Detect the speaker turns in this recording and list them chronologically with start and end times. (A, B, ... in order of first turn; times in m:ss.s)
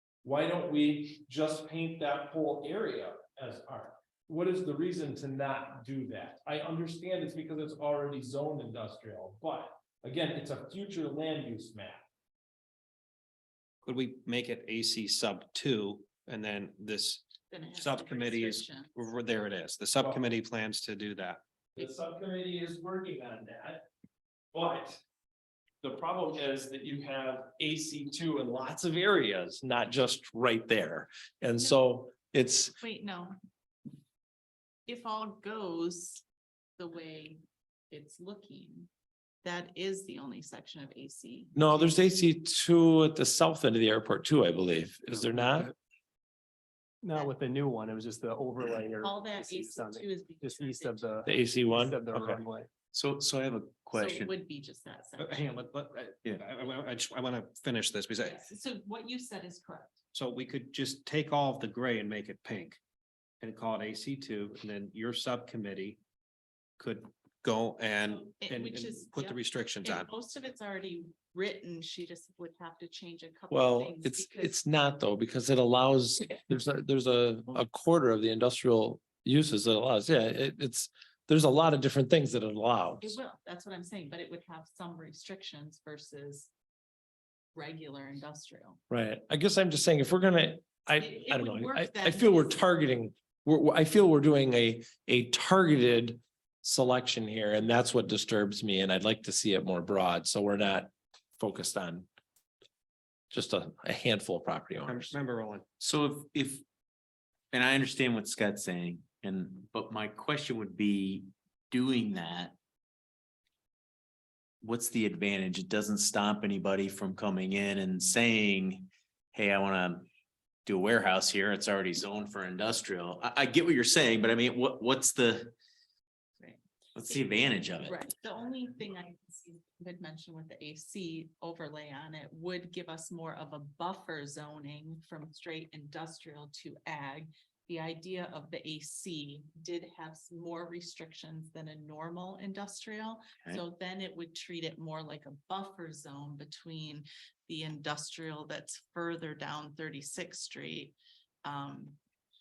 0:00.2-0:12.0 A
0:13.8-0:21.4 B
0:17.5-0:19.0 C
0:21.8-0:23.8 A
0:24.5-0:25.0 A
0:25.8-0:32.8 A
0:31.6-0:31.8 C
0:32.8-0:33.4 C
0:34.9-0:36.2 C
0:36.8-0:37.4 C
0:37.9-0:38.9 C
0:39.4-0:42.0 C
0:41.6-0:45.7 A
0:47.0-0:52.7 D
0:49.0-0:51.2 C
0:51.3-0:52.4 A
0:52.9-0:54.3 E
0:53.9-0:55.6 C
0:55.2-0:58.4 B
0:58.2-1:00.0 C
1:00.1-1:02.8 B
1:03.4-1:06.0 B
1:06.8-1:10.1 B
1:08.1-1:14.6 C
1:13.5-1:23.2 A
1:23.0-1:26.5 C
1:27.6-1:28.8 C
1:28.9-1:42.1 A
1:31.0-1:32.5 C
1:43.3-1:45.2 A
1:44.8-1:45.6 B
1:45.8-1:46.6 E
1:47.5-1:52.6 E
1:54.6-2:00.1 E
2:00.7-2:05.6 E
2:06.4-2:32.0 C
2:07.0-2:08.0 E